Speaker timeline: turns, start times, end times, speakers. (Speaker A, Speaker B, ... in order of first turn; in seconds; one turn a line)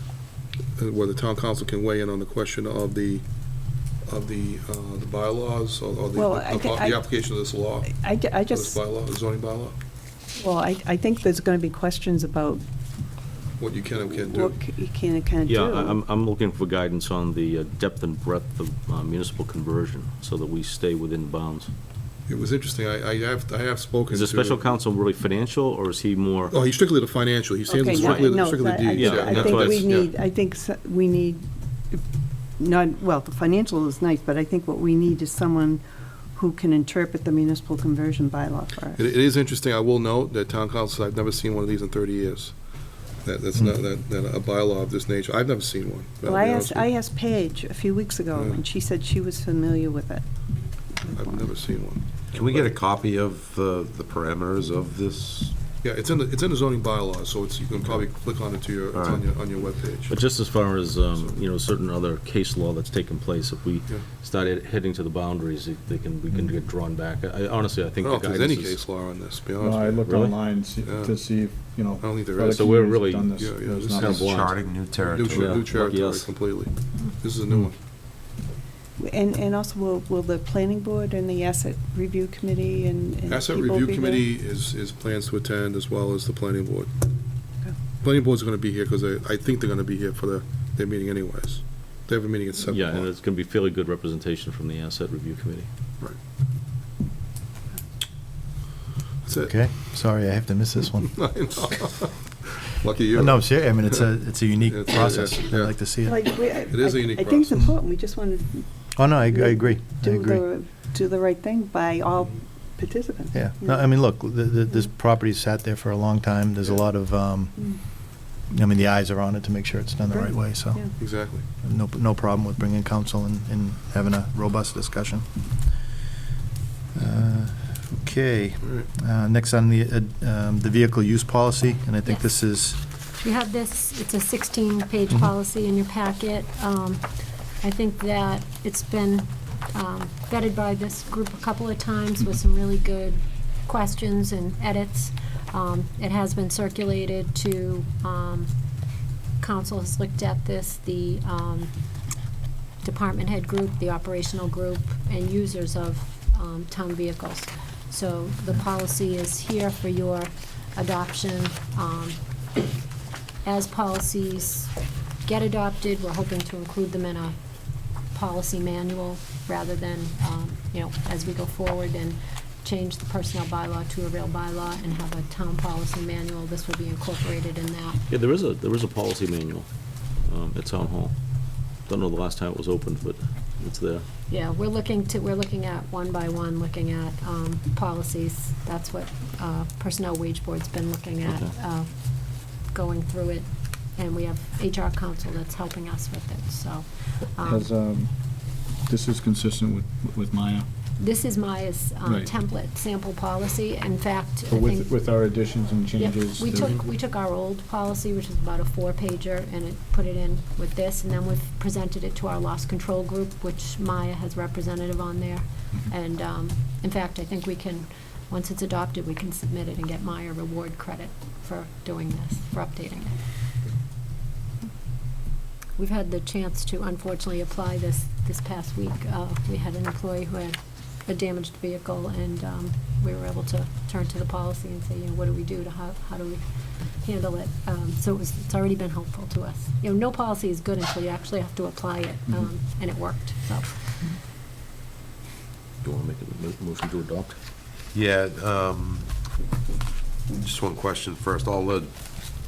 Speaker A: 0.8-3.3
Speaker A: 4.0-9.8
Speaker B: 6.2-7.1
Speaker B: 7.8-8.8
Speaker B: 10.4-12.6
Speaker A: 13.6-14.7
Speaker B: 14.1-16.0
Speaker C: 15.4-21.7
Speaker A: 22.3-24.8
Speaker C: 24.1-26.6
Speaker A: 26.5-30.1
Speaker B: 27.7-32.0
Speaker C: 27.8-30.0
Speaker B: 32.6-35.8
Speaker B: 36.3-39.0
Speaker A: 39.0-42.6
Speaker A: 43.2-46.9
Speaker B: 46.2-50.2
Speaker A: 48.3-48.7
Speaker B: 50.9-51.7
Speaker A: 51.1-52.7
Speaker D: 52.3-55.5
Speaker A: 55.8-60.2
Speaker D: 59.0-59.4
Speaker C: 60.1-68.8
Speaker A: 61.1-61.4
Speaker A: 68.0-70.2
Speaker E: 69.6-74.2
Speaker C: 70.1-70.4
Speaker A: 70.8-71.2
Speaker A: 72.0-72.7
Speaker C: 72.5-73.4
Speaker A: 73.3-74.0
Speaker C: 74.0-74.6
Speaker D: 74.0-75.7
Speaker A: 75.0-77.8
Speaker C: 75.3-76.3
Speaker B: 79.0-84.2
Speaker A: 83.3-87.0
Speaker A: 88.0-93.1
Speaker C: 92.7-95.7
Speaker A: 99.2-99.6
Speaker F: 99.4-101.3
Speaker A: 101.0-104.1
Speaker F: 103.1-106.3
Speaker A: 104.7-105.9
Speaker B: 106.0-108.7
Speaker A: 106.5-107.7
Speaker F: 109.0-110.5
Speaker B: 109.3-113.8
Speaker F: 113.3-121.0
Speaker B: 120.1-120.9
Speaker A: 120.9-121.5
Speaker F: 121.5-125.2
Speaker F: 127.0-132.8
Speaker A: 128.6-128.9
Speaker G: 133.2-137.1
Speaker G: 137.6-148.5
Speaker G: 149.4-151.7
Speaker G: 152.8-162.2
Speaker G: 163.4-164.7
Speaker G: 165.2-167.4
Speaker G: 168.1-178.0
Speaker C: 178.1-179.7
Speaker C: 180.2-181.1
Speaker C: 181.9-184.1
Speaker G: 184.3-197.7
Speaker E: 197.4-200.7
Speaker G: 201.0-205.0
Speaker E: 202.0-202.3
Speaker E: 204.5-206.8
Speaker G: 205.9-223.2
Speaker G: 225.8-236.4
Speaker G: 237.0-243.8
Speaker C: 245.8-247.3
Speaker D: 247.9-249.1
Speaker D: 250.4-251.9